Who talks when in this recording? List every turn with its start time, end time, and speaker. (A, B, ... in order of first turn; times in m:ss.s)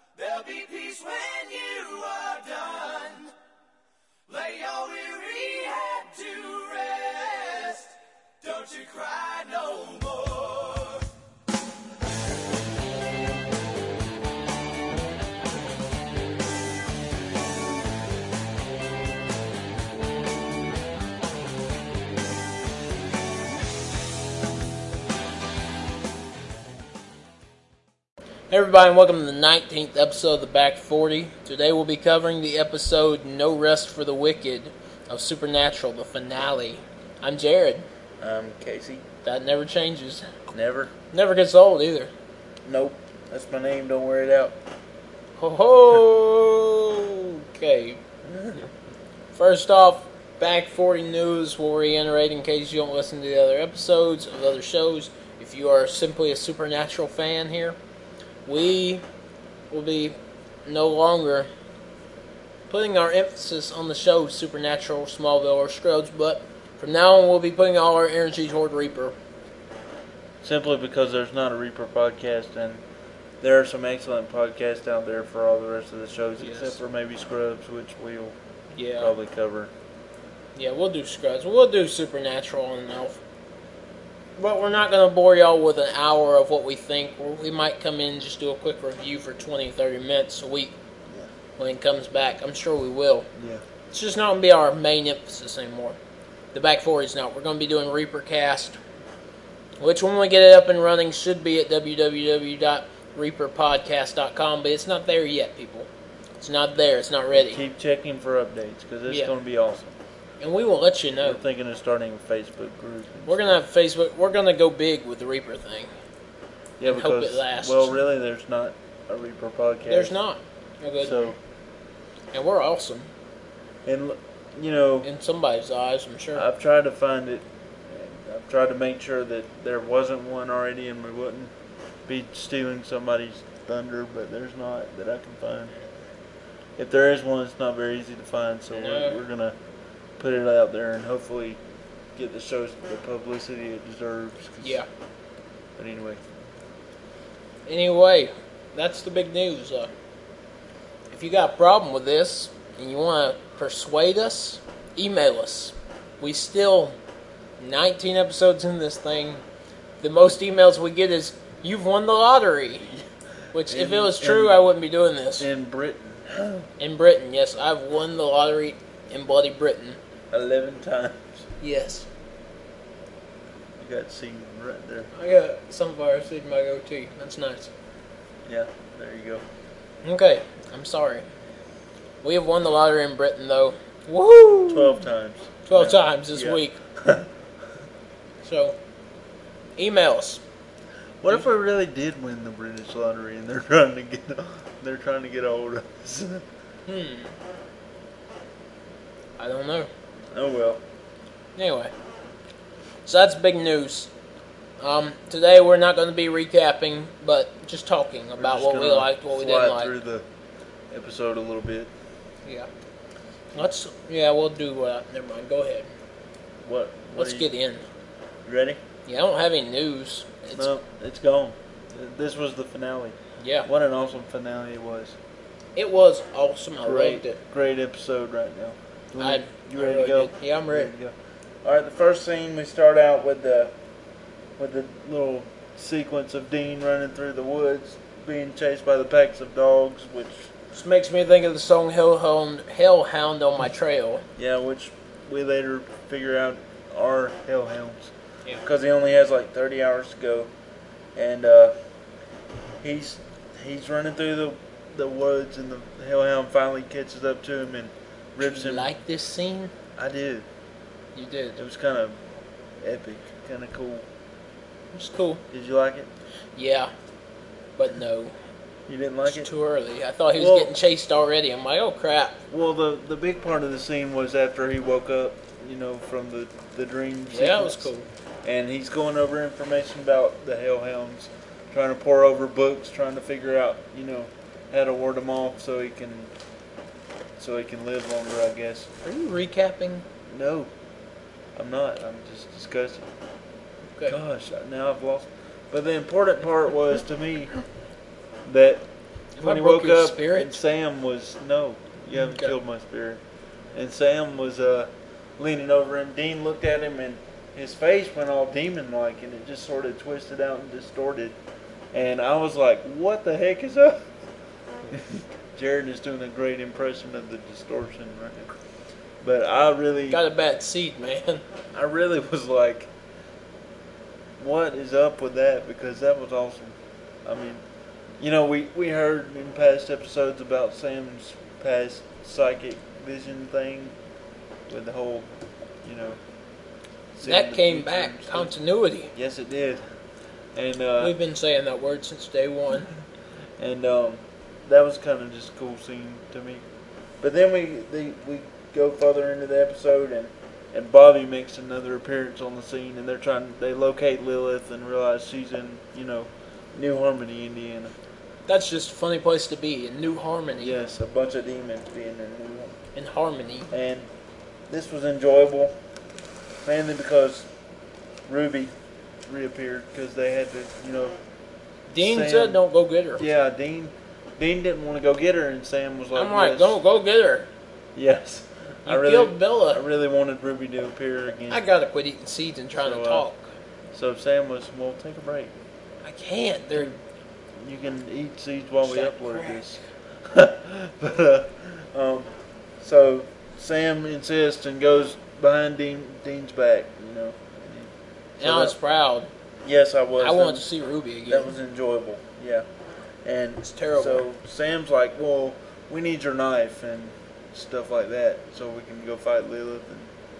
0:00.2-0:03.3 A
0:04.3-0:11.0 A
0:28.5-0:37.9 B
0:38.2-0:39.0 C
0:39.2-0:40.3 B
0:40.5-0:40.9 C
0:41.1-0:42.1 B
0:42.6-0:44.6 C
0:45.4-0:48.0 B
0:48.2-0:48.7 C
0:49.3-0:57.8 B
0:58.4-0:59.0 B
0:59.7-1:01.5 B
1:02.7-1:09.2 B
1:10.4-1:12.8 C
1:13.4-1:18.4 C
1:16.4-1:16.8 B
1:18.7-1:19.1 B
1:19.0-1:19.7 C
1:20.6-1:23.2 B
1:24.4-1:30.8 B
1:31.6-1:33.3 B
1:33.4-1:33.6 C
1:33.9-1:36.0 B
1:36.5-1:38.8 B
1:39.8-1:45.9 B
1:46.4-1:47.6 B
1:47.3-1:50.0 C
1:50.4-1:51.4 B
1:51.2-1:53.6 C
1:53.2-1:55.9 B
1:56.8-2:00.1 C
1:56.8-1:58.0 B
1:59.8-2:01.4 B
2:01.0-2:01.4 C
2:02.3-2:03.1 B
2:03.8-2:05.1 C
2:05.0-2:06.4 B
2:06.3-2:11.5 C
2:12.1-2:15.7 C
2:16.8-2:19.6 C
2:18.7-2:19.2 B
2:20.2-2:21.6 C
2:22.1-2:24.8 C
2:24.6-2:24.9 B
2:25.8-2:26.2 C
2:27.6-2:29.9 B
2:31.1-2:37.0 B
2:37.6-2:39.4 B
2:40.0-2:42.9 B
2:42.8-2:44.6 C
2:43.5-2:45.5 B
2:45.4-2:46.7 C
2:46.8-2:50.0 B
2:50.3-2:51.5 C
2:51.6-2:52.1 B
2:53.8-2:55.1 C
2:55.1-2:57.7 B
2:58.4-2:59.4 C
3:00.0-3:01.2 B
3:02.2-3:05.0 B
3:04.7-3:07.3 C
3:05.6-3:06.8 B
3:08.4-3:08.8 B
3:09.8-3:10.4 B
3:11.2-3:16.4 C
3:16.9-3:17.4 B
3:19.4-3:19.9 B
3:20.3-3:20.8 C
3:21.6-3:21.9 B
3:23.0-3:24.1 B
3:24.8-3:29.9 B
3:28.4-3:30.2 C
3:30.9-3:31.9 C
3:33.5-3:35.9 B
3:36.6-3:37.5 C
3:37.2-3:37.8 B
3:38.4-3:38.8 C
3:39.0-3:40.7 B
3:40.5-3:45.2 C
3:43.4-3:43.7 B
3:45.8-3:47.4 B
3:46.8-3:53.7 C
3:49.2-3:50.9 B
3:54.6-4:00.5 C
4:00.7-4:04.2 B
4:04.4-4:10.5 C
4:11.1-4:11.7 C
4:12.8-4:18.9 C
4:18.4-4:19.7 B
4:20.0-4:20.4 C
4:21.1-4:21.6 B
4:21.6-4:22.2 C
4:22.8-4:24.1 C
4:24.9-4:25.4 B
4:25.5-4:26.1 C
4:26.6-4:26.9 B
4:27.8-4:28.3 B
4:28.9-4:29.5 C
4:29.2-4:32.4 B
4:30.3-4:30.7 C
4:32.5-4:37.9 C
4:37.3-4:38.1 B
4:38.4-4:46.3 C
4:47.4-4:48.9 C
4:49.0-4:50.0 B
4:50.3-4:50.7 C
4:51.6-4:53.1 C
4:54.0-4:57.5 C
4:58.4-4:58.9 C
4:59.4-5:00.6 B
4:59.4-5:03.2 C
5:02.1-5:02.6 B
5:03.7-5:11.4 C
5:11.9-5:14.1 C
5:14.9-5:18.5 C
5:19.2-5:20.2 C
5:20.1-5:21.4 B
5:21.7-5:22.9 C
5:24.4-5:27.6 C
5:28.2-5:34.0 C
5:34.7-5:35.3 C
5:35.8-5:36.2 C
5:37.1-5:38.5 C
5:37.2-5:39.1 B
5:39.1-5:39.8 C
5:40.5-5:41.2 C
5:41.0-5:42.9 B
5:43.6-5:46.6 C
5:47.2-5:57.9 C
5:58.5-6:00.8 B
6:00.6-6:02.8 C
6:02.9-6:03.7 B
6:03.7-6:04.1 C
6:04.7-6:05.8 C
6:06.6-6:07.5 C
6:08.2-6:08.7 C
6:09.2-6:11.2 C
6:11.9-6:12.6 C
6:11.9-6:13.2 B
6:13.2-6:16.8 C
6:16.1-6:17.5 B
6:17.9-6:21.6 C
6:18.8-6:19.8 B
6:21.5-6:23.5 B
6:22.8-6:23.3 C
6:23.9-6:25.5 C
6:26.0-6:27.0 B
6:27.6-6:38.7 C
6:28.8-6:29.8 B
6:38.4-6:39.3 B
6:39.6-6:40.7 C
6:40.2-6:41.5 B
6:41.2-6:42.7 C
6:43.2-6:50.1 C
6:43.6-6:44.2 B